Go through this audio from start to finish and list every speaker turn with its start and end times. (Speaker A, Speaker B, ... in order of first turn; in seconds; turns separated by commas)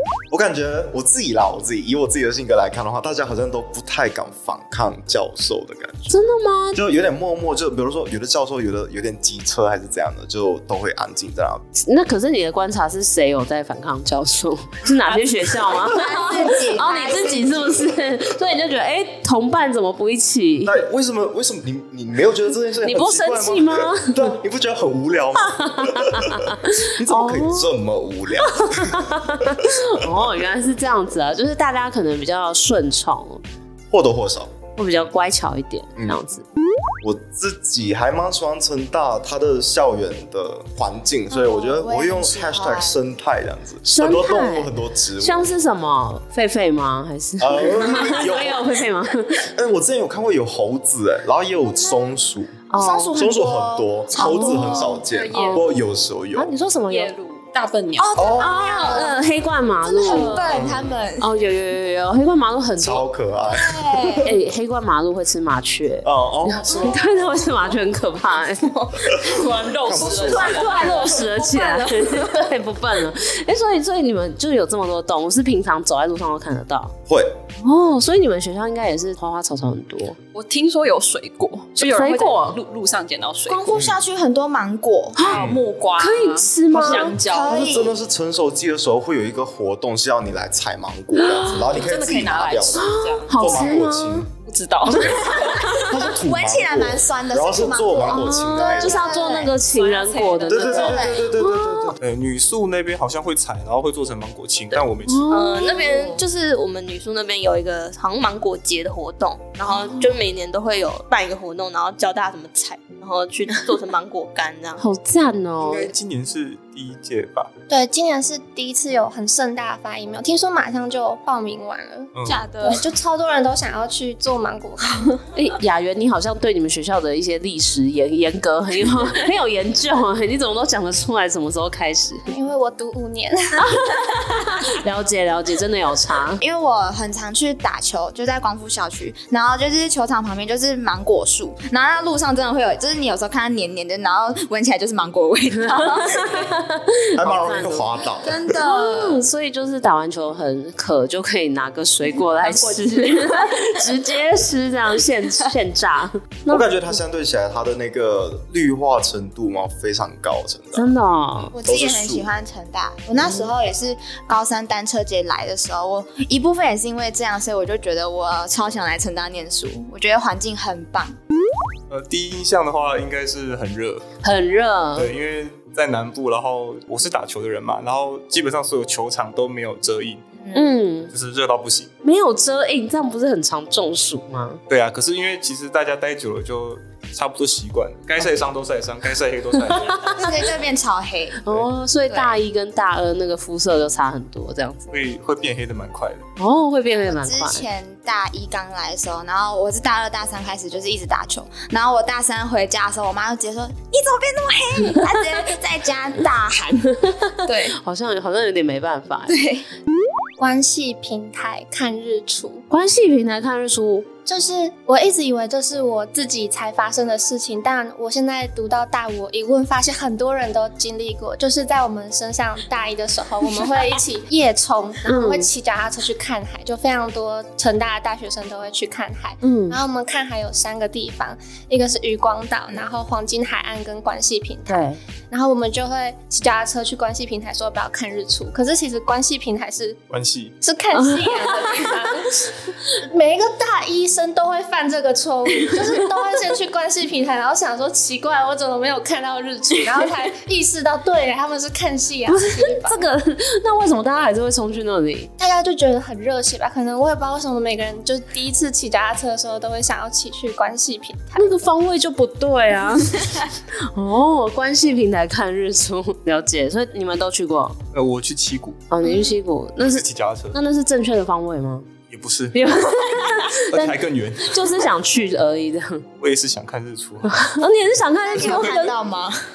Speaker A: 0.3-6.2, Speaker B: 6.1-6.8, Speaker A: 6.7-11.6, Speaker B: 11.8-20.8, Speaker C: 15.7-18.0, Speaker A: 20.6-29.6, Speaker B: 22.8-24.4, Speaker B: 25.4-27.7, Speaker B: 28.4-33.4, Speaker A: 33.9-34.5, Speaker B: 34.8-36.4, Speaker A: 37.0-45.5, Speaker C: 41.3-43.0, Speaker B: 43.9-49.5, Speaker A: 47.4-48.7, Speaker A: 49.5-52.6, Speaker B: 52.7-53.2, Speaker C: 52.7-55.0, Speaker A: 53.1-56.5, Speaker B: 54.2-55.6, Speaker D: 55.1-55.7, Speaker B: 56.4-57.1, Speaker D: 56.9-58.2, Speaker C: 58.0-59.2, Speaker A: 58.2-58.5, Speaker B: 58.4-63.1, Speaker C: 59.8-61.3, Speaker D: 60.1-60.4, Speaker A: 60.5-60.9, Speaker A: 62.8-64.3, Speaker C: 63.5-64.3, Speaker B: 64.2-68.7, Speaker A: 66.0-67.0, Speaker D: 68.9-72.3, Speaker A: 69.8-70.8, Speaker B: 70.1-76.9, Speaker A: 77.1-77.4, Speaker B: 77.6-80.2, Speaker D: 80.3-83.8, Speaker B: 81.8-82.6, Speaker C: 83.5-85.2, Speaker B: 85.2-85.5, Speaker D: 85.2-87.7, Speaker A: 85.4-85.6, Speaker B: 86.0-87.1, Speaker A: 86.7-94.3, Speaker C: 87.2-88.0, Speaker D: 91.2-93.7, Speaker B: 92.7-94.3, Speaker D: 94.5-95.3, Speaker B: 94.9-95.7, Speaker A: 95.2-99.2, Speaker C: 95.3-99.5, Speaker B: 98.1-101.9, Speaker D: 99.5-101.0, Speaker A: 100.5-102.0, Speaker C: 100.7-101.2, Speaker E: 102.0-105.3, Speaker B: 105.1-106.2, Speaker F: 105.3-114.8, Speaker B: 114.8-115.9, Speaker E: 115.6-117.5, Speaker G: 117.7-125.2, Speaker E: 122.1-122.5, Speaker B: 125.3-132.3, Speaker G: 132.3-133.7, Speaker B: 133.6-136.4, Speaker C: 136.4-146.5, Speaker B: 145.7-147.9, Speaker A: 147.2-148.4, Speaker C: 148.2-149.2, Speaker B: 148.6-156.7, Speaker C: 152.1-153.8, Speaker A: 156.5-160.9, Speaker B: 160.7-161.5, Speaker C: 161.5-171.2, Speaker A: 161.6-162.3, Speaker E: 171.9-174.0, Speaker B: 174.2-175.1, Speaker E: 175.0-180.2, Speaker C: 180.4-180.7, Speaker B: 180.5-181.1, Speaker E: 181.1-181.9, Speaker B: 182.0-184.6, Speaker E: 184.7-190.3, Speaker B: 189.7-190.3, Speaker C: 190.2-191.4, Speaker B: 191.4-194.9, Speaker C: 192.1-192.3, Speaker E: 194.9-196.3, Speaker B: 196.4-197.7, Speaker C: 197.1-207.8, Speaker B: 207.5-209.3, Speaker C: 209.3-209.7, Speaker G: 210.4-212.7, Speaker B: 212.7-214.1, Speaker G: 214.3-240.0, Speaker B: 225.1-225.5, Speaker B: 229.4-229.8, Speaker B: 234.7-235.0, Speaker E: 240.1-240.6, Speaker G: 240.6-253.1, Speaker B: 240.9-242.1, Speaker B: 252.3-255.3, Speaker G: 255.4-261.5, Speaker B: 261.4-263.3, Speaker B: 263.9-267.8, Speaker E: 267.9-268.9, Speaker B: 268.9-271.9, Speaker E: 269.8-270.6, Speaker E: 272.1-272.6, Speaker B: 272.5-276.1, Speaker E: 273.7-274.6, Speaker E: 276.2-277.5, Speaker B: 277.3-279.0, Speaker C: 278.2-279.4